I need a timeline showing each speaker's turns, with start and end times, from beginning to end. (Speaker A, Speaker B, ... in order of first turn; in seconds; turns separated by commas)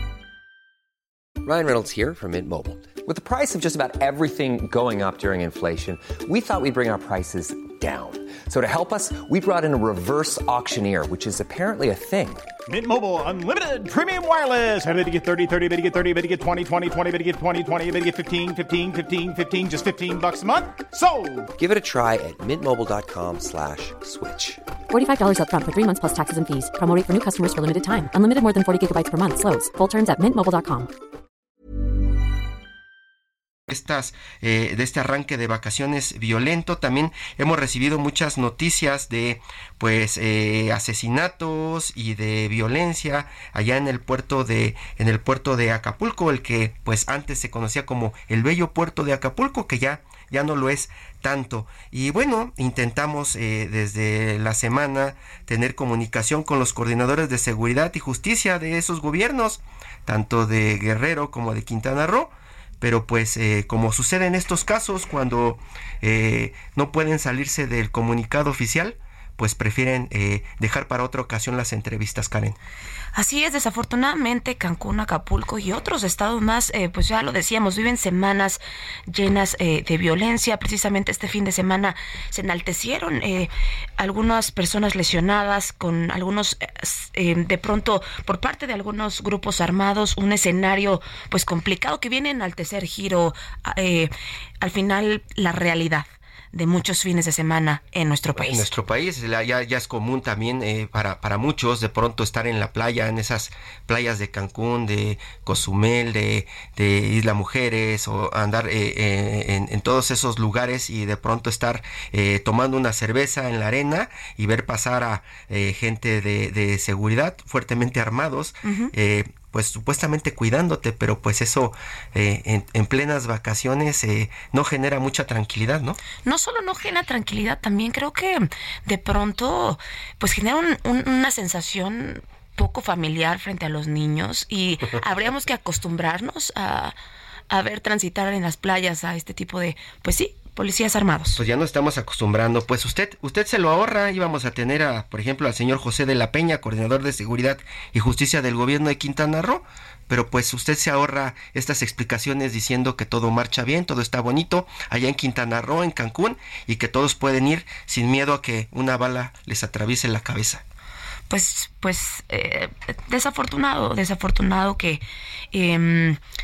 Speaker A: 1.4-12.5, Speaker B: 12.7-21.5, Speaker A: 21.5-24.6, Speaker C: 24.9-30.9, Speaker D: 33.7-72.6, Speaker E: 73.1-98.7, Speaker D: 98.3-126.0, Speaker E: 118.6-118.9, Speaker E: 126.2-136.9, Speaker E: 137.5-141.4, Speaker D: 141.3-160.6, Speaker E: 161.3-166.2